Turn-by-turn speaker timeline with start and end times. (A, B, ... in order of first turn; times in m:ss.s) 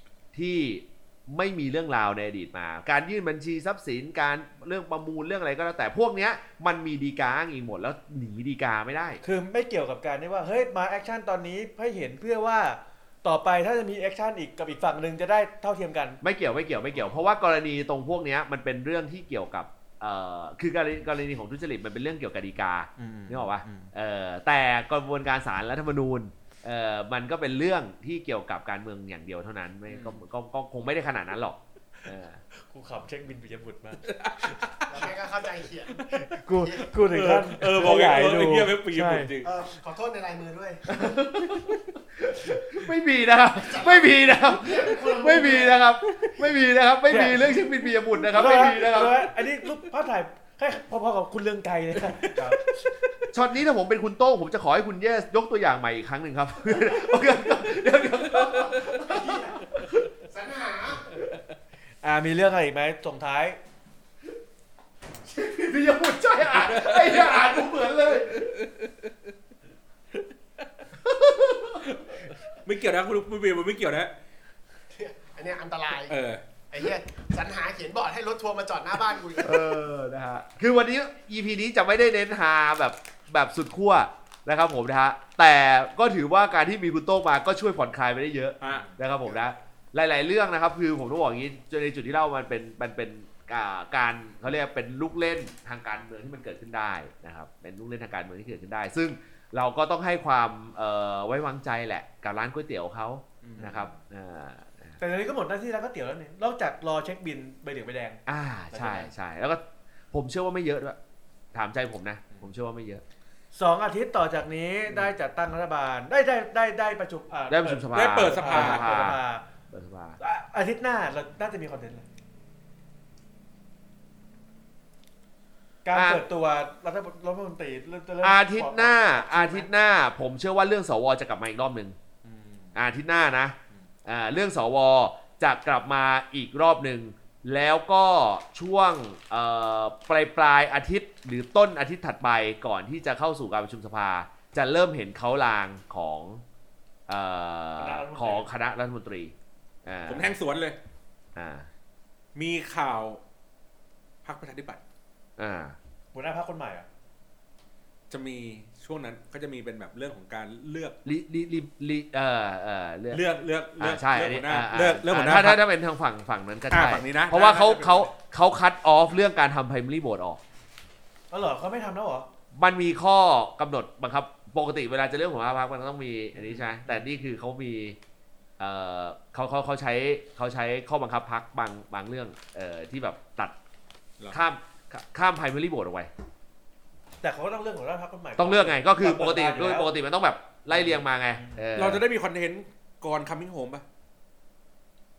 0:00.3-0:09.2 A
0:09.2-0:16.2 B
0:16.2-0:32.4 A
0:23.0-0:23.9 B
0:32.7-0:34.6 B
0:34.1-0:34.7 C
0:34.9-0:37.0 D
0:36.1-0:39.4 B
0:37.0-0:39.5 C
0:39.4-0:40.9 D
0:40.9-0:49.3 A
0:43.6-0:45.8 D
0:47.1-0:47.7 B
0:48.2-0:53.3 B
0:53.3-0:59.8 A
0:59.0-0:59.7 D
1:00.3-1:01.1 D
1:02.0-1:03.6 B
1:05.3-1:08.5 A
1:06.7-1:07.4 C
1:08.3-1:08.8 C
1:11.0-1:11.9 A
1:12.6-1:14.1 C
1:14.9-1:16.1 D
1:16.1-1:16.4 C
1:16.7-1:19.7 D
1:19.4-1:45.0 A
1:28.6-1:28.9 C
1:28.7-1:28.9 B
1:43.4-1:43.9 C
1:45.0-1:49.1 B
1:48.3-1:51.0 A
1:51.5-1:53.0 A
1:53.5-1:59.4 B
1:57.5-1:59.2 A
1:57.9-1:58.8 C
1:59.7-2:00.2 A
2:00.2-2:02.0 B
2:05.8-2:09.7 B
2:05.9-2:06.2 A
2:08.2-2:12.0 A
2:12.2-2:12.8 B
2:12.8-2:26.4 A
2:27.1-2:29.3 A
2:27.8-2:28.5 B
2:29.8-2:30.3 A
2:30.1-2:30.8 C
2:31.4-2:31.7 A
2:32.4-2:33.2 C
2:34.2-2:34.8 C
2:35.4-2:35.8 A
2:36.1-2:36.9 B
2:38.1-2:41.0 C
2:41.0-2:43.2 A
2:43.1-2:45.6 C
2:43.8-2:50.4 A
2:46.7-2:48.1 C
2:51.3-2:52.3 B
2:52.5-2:58.0 A
2:58.6-3:03.6 A
3:04.3-3:06.1 A
3:07.2-3:09.9 B
3:08.4-3:12.0 A
3:11.4-3:11.6 B
3:11.8-3:13.8 C